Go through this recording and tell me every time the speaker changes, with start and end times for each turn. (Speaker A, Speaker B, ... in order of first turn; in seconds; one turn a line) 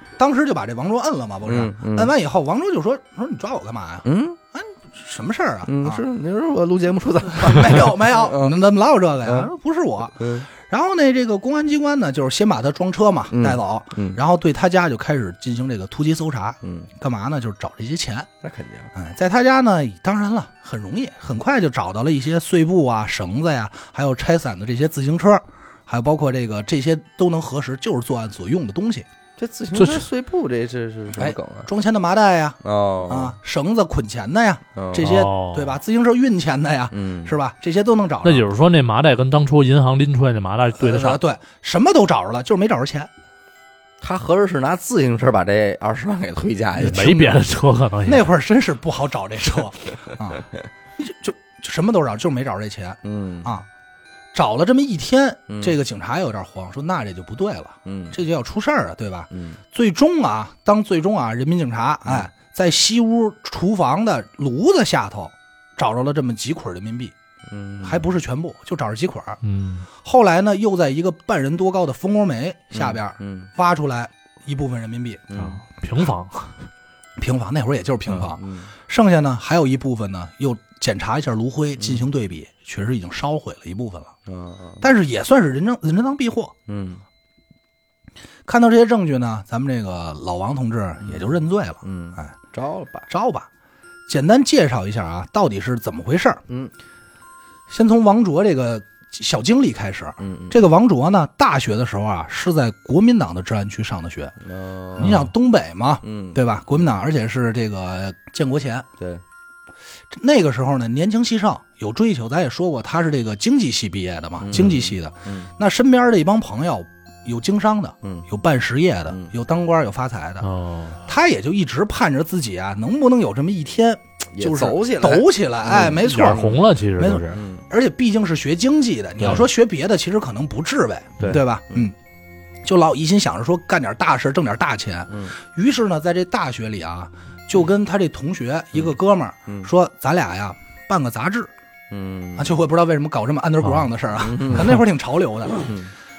Speaker A: 0.2-6.0
Speaker B: 1.4-2.1
Speaker B: 4.0-4.4
Speaker B: 5.6-8.6
Speaker A: 7.3-18.3
Speaker B: 9.2-9.5
Speaker B: 10.2-10.5
Speaker B: 13.3-14.2
Speaker B: 16.6-16.9
Speaker B: 18.4-18.9
Speaker A: 18.9-29.1
Speaker B: 29.4-31.7
Speaker C: 29.7-30.1
Speaker A: 31.1-38.5
Speaker B: 32.6-33.3
Speaker B: 34.7-35.2
Speaker C: 35.0-35.8
Speaker B: 36.9-37.3
Speaker C: 38.2-41.2
Speaker A: 40.8-43.1
Speaker B: 44.0-47.4
Speaker C: 46.8-48.3
Speaker A: 48.0-53.6
Speaker B: 53.0-53.5
Speaker A: 54.3-67.1
Speaker B: 55.5-55.8
Speaker B: 57.8-58.2
Speaker B: 59.3-59.6
Speaker B: 62.0-62.3
Speaker B: 67.5-68.1
Speaker A: 67.8-69.4
Speaker C: 69.4-69.8
Speaker A: 70.0-75.2
Speaker B: 72.7-73.5
Speaker B: 75.3-75.6
Speaker C: 75.3-76.5
Speaker A: 77.2-84.1
Speaker B: 78.1-78.7
Speaker B: 81.8-82.0
Speaker B: 84.2-84.8
Speaker A: 84.8-86.5
Speaker B: 86.7-87.0
Speaker A: 88.5-92.3
Speaker B: 91.8-93.1
Speaker A: 93.1-93.5
Speaker A: 94.1-96.4
Speaker A: 97.7-104.3
Speaker B: 100.2-100.6
Speaker B: 104.4-105.2
Speaker A: 105.0-108.8
Speaker C: 105.0-105.3
Speaker B: 106.0-106.4
Speaker A: 110.1-120.5
Speaker B: 114.4-115.5
Speaker C: 120.4-121.0
Speaker A: 121.0-131.9
Speaker B: 124.3-126.6
Speaker C: 125.8-127.4
Speaker B: 127.3-127.6
Speaker B: 131.2-131.9
Speaker A: 132.6-141.5
Speaker B: 141.9-142.5
Speaker A: 142.3-145.7
Speaker B: 144.2-144.7
Speaker B: 145.7-145.9